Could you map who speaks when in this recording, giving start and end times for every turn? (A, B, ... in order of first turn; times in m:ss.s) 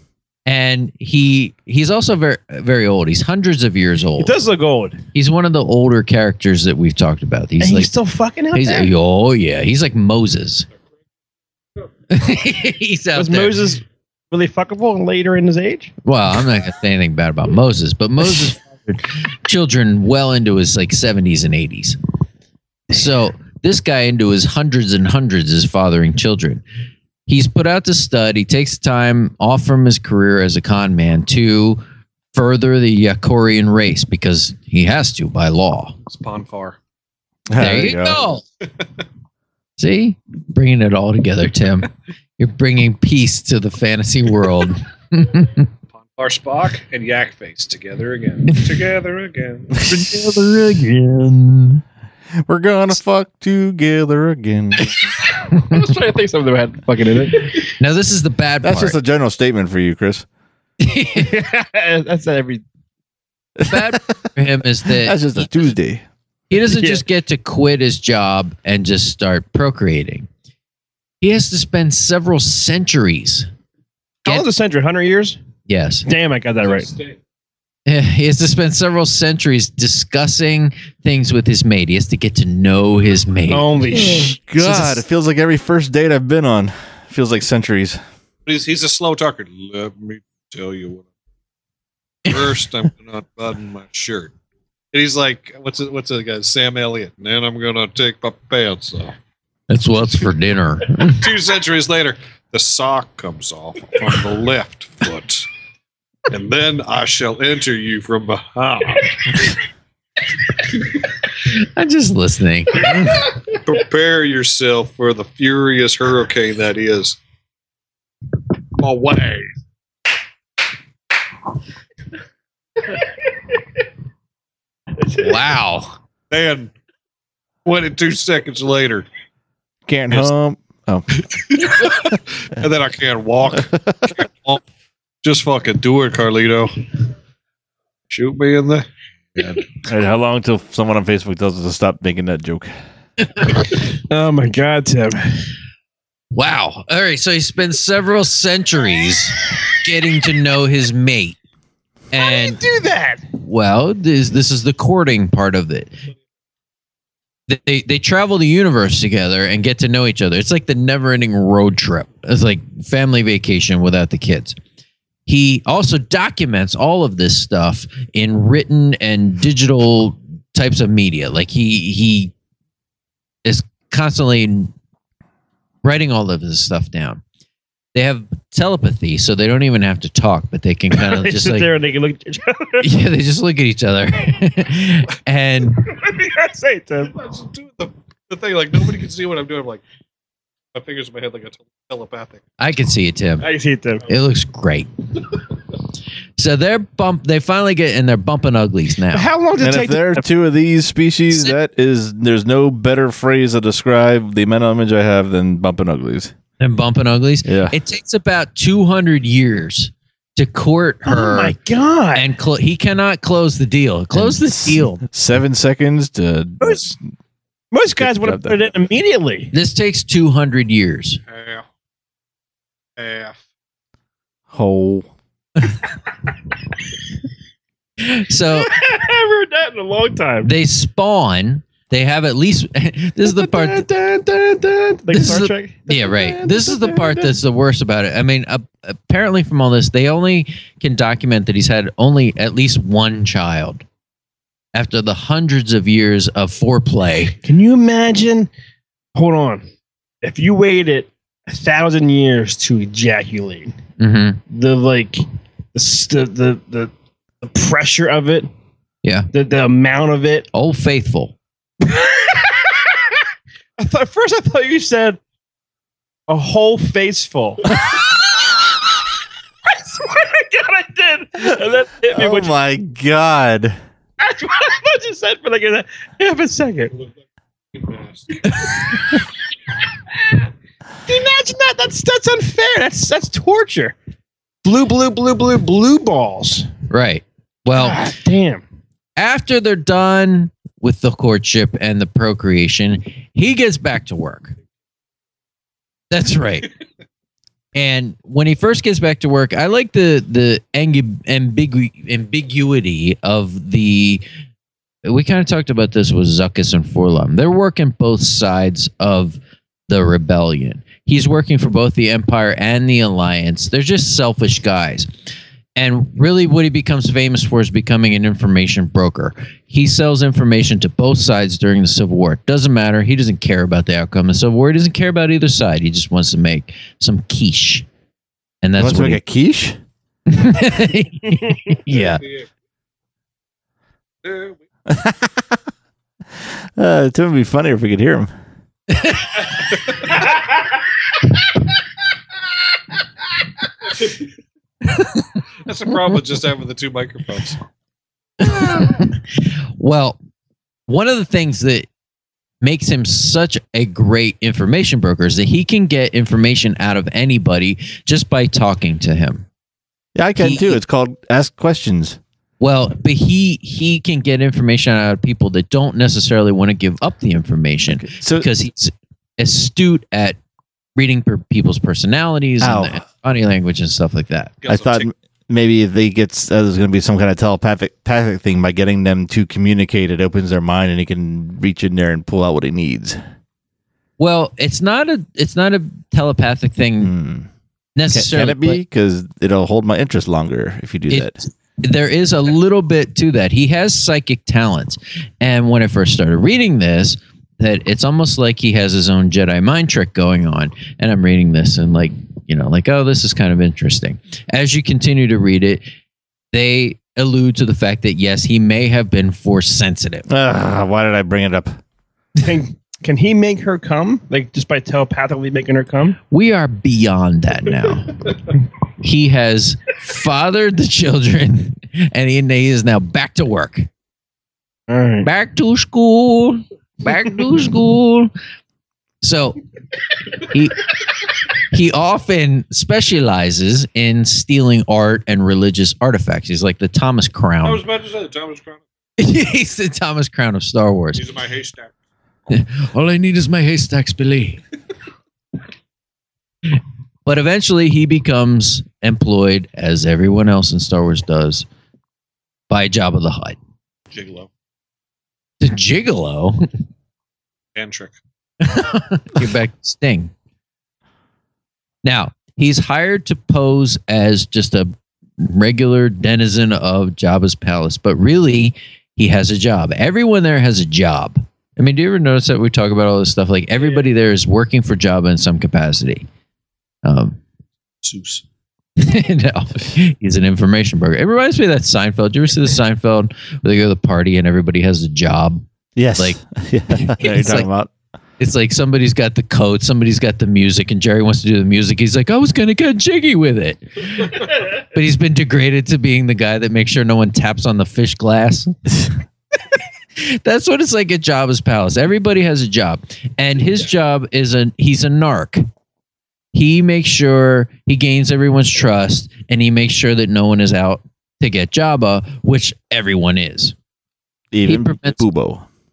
0:00.4-0:04.3 A
0:04.2-0:05.0 B
0:05.1-0:07.9 A
0:07.6-0:08.9 B
0:08.5-0:10.7 A
0:12.1-0:13.6 A
0:13.1-0:15.9 B
0:16.0-0:22.0 A
0:22.9-0:26.6 A
0:27.3-0:31.8 A
0:32.3-0:35.9 A
0:36.0-0:36.8 C
0:37.5-0:38.2 D
0:37.6-0:38.4 A
0:39.8-0:45.7 A
0:46.0-0:49.8 C
0:49.9-0:51.3 A
0:49.9-0:51.6 B
0:52.4-0:55.0 D
0:55.3-0:55.8 A
0:55.3-0:57.7 B
0:57.6-0:59.0 A
0:58.6-1:00.2 D
1:00.8-1:01.4 A
1:01.1-1:02.6 B
1:03.6-1:04.0 D
1:03.6-1:05.7 A
1:04.8-1:06.0 D
1:06.5-1:10.3 A
1:06.7-1:07.0 B
1:11.2-1:13.5 A
1:14.2-1:15.4 B
1:15.6-1:16.0 A
1:16.1-1:16.9 B
1:16.6-1:17.2 C
1:17.8-1:25.0 A
1:23.5-1:24.3 B
1:23.9-1:28.0 D
1:28.4-1:31.1 C
1:32.2-1:34.3 C
1:34.9-1:39.1 C
1:39.7-1:41.2 A
1:41.1-1:45.5 C
1:46.3-1:49.5 C
1:51.4-1:53.2 A
1:53.5-1:57.2 C
1:58.8-1:59.5 C
2:05.0-2:05.5 B
2:05.2-2:05.9 A
2:06.3-2:06.7 C
2:07.6-2:09.1 C
2:09.8-2:11.1 D
2:11.3-2:14.6 C
2:15.2-2:16.8 C
2:18.1-2:18.8 C
2:19.8-2:22.7 D
2:23.6-2:25.4 B
2:26.3-2:31.4 A
2:32.1-2:32.6 A
2:32.1-2:33.2 B
2:33.4-2:35.9 A
2:37.5-2:44.6 A
2:45.2-2:52.3 A
2:53.4-2:54.7 A
2:55.8-2:57.2 A
2:57.9-3:01.7 A
3:01.0-3:02.8 B
3:02.8-3:05.8 A
3:05.8-3:07.1 B
3:07.1-3:09.8 C
3:10.7-3:12.4 C
3:12.6-3:13.5 A
3:13.4-3:14.0 B
3:14.1-3:14.9 A
3:16.4-3:19.3 A
3:19.1-3:20.2 B
3:19.6-3:26.3 D
3:26.6-3:31.6 A
3:27.4-3:27.8 D
3:31.0-3:32.3 B
3:32.1-3:35.0 A
3:34.1-3:37.0 D
3:37.7-3:39.5 B
3:38.0-3:38.7 D
3:39.5-3:41.2 A
3:41.3-3:41.6 C
3:43.0-3:43.4 C
3:44.5-3:45.1 D
3:48.0-3:48.7 A
3:48.5-3:50.5 B
3:50.4-3:53.9 A
3:53.2-3:57.3 B
3:55.1-4:03.8 A
4:04.7-4:07.4 A
4:07.4-4:08.5 B
4:09.1-4:09.6 B
4:10.2-4:13.7 B
4:14.0-4:14.4 A
4:14.5-4:15.2 B
4:15.7-4:16.9 B
4:17.4-4:18.5 B
4:19.0-4:19.3 A
4:19.3-4:20.5 B
4:20.5-4:21.3 A
4:21.8-4:23.1 B
4:23.8-4:25.2 B
4:26.3-4:28.0 B
4:29.7-4:32.5 B
4:32.1-4:33.8 D
4:34.2-4:36.9 B
4:37.7-4:38.7 C
4:41.1-4:43.9 B
4:44.6-4:46.7 B
4:46.9-4:48.1 A
4:47.7-4:48.6 B
4:49.2-4:54.5 A
4:56.1-4:56.7 A
4:57.7-5:04.2 A
5:05.0-5:15.1 A
5:15.8-5:27.8 A
5:28.6-5:29.2 A
5:28.8-5:29.8 D
5:30.3-5:32.2 A
5:31.9-5:32.4 C
5:34.2-5:34.6 C
5:34.9-5:35.6 D
5:36.8-5:38.3 D
5:38.9-5:39.4 A
5:45.6-5:47.6 C
5:48.4-5:50.2 A
5:50.9-5:51.9 A
5:52.6-5:59.4 A
6:00.1-6:02.2 D
6:00.4-6:00.8 A
6:02.6-6:10.4 A
6:07.9-6:08.5 D
6:11.0-6:14.5 A
6:12.6-6:13.0 D
6:14.6-6:15.1 C
6:14.6-6:23.2 D
6:24.2-6:27.1 A
6:27.0-6:27.5 D
6:28.0-6:28.8 A
6:28.1-6:31.4 D
6:31.1-6:45.8 A
6:46.5-6:50.3 A
6:50.3-6:51.7 D
6:52.4-6:56.2 B
6:56.3-6:58.3 A
6:59.0-7:03.9 A
7:04.9-7:05.3 B
7:05.2-7:08.3 A
7:09.2-7:09.6 A
7:10.4-7:10.9 A
7:11.6-7:17.8 A
7:17.6-7:18.8 C
7:19.2-7:21.2 A
7:21.1-7:21.9 C
7:22.5-7:24.6 A
7:27.2-7:31.6 A
7:32.7-7:33.6 A
7:34.1-7:34.5 C
7:35.6-7:36.7 A
7:37.7-7:38.2 C
7:38.6-7:40.3 A
7:42.0-7:56.2 A
7:57.0-7:57.4 A
7:58.0-7:58.4 C
7:59.0-8:05.6 A
8:06.0-8:07.9 D
8:06.9-8:07.7 A
8:08.4-8:18.8 A
8:20.2-8:25.6 A
8:26.5-8:33.7 A
8:34.5-8:35.7 D
8:34.6-8:35.2 A